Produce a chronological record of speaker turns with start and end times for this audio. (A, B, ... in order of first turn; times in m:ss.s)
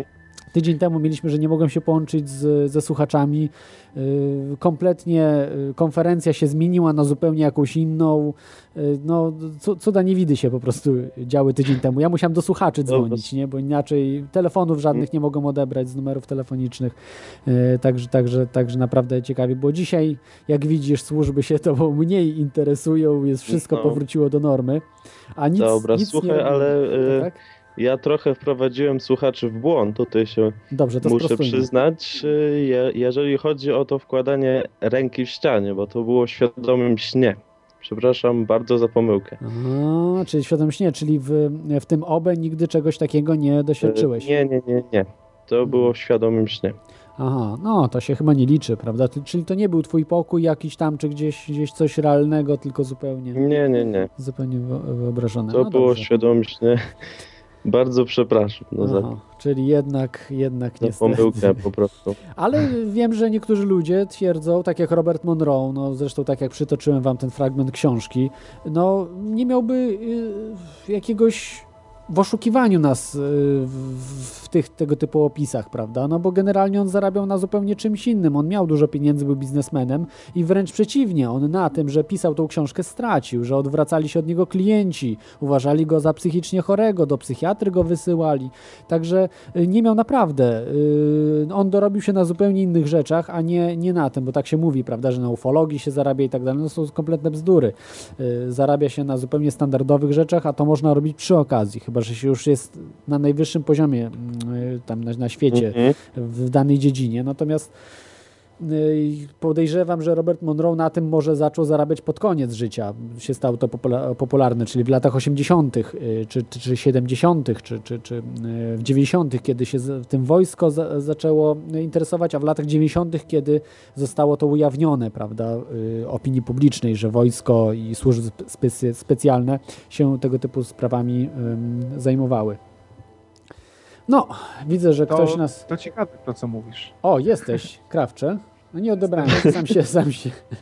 0:00.5-0:27.4 A
0:12.9-0:13.3 B
0:23.5-0:24.0 B
0:25.6-0:39.4 B
0:30.7-0:31.7 A
0:39.4-0:44.3 A
0:43.8-0:46.8 B
0:45.6-0:45.9 A
0:47.2-0:53.4 A
0:53.4-0:54.1 B
0:54.2-0:56.1 A
0:55.5-0:56.9 B
0:57.6-0:59.1 B
0:58.8-1:01.6 A
1:00.8-1:02.2 B
1:02.4-1:47.7 A
1:45.5-1:46.0 B
1:48.6-2:12.6 A
2:14.1-2:15.6 A
2:15.1-2:16.9 C
2:17.0-2:20.4 A
2:19.2-2:19.4 C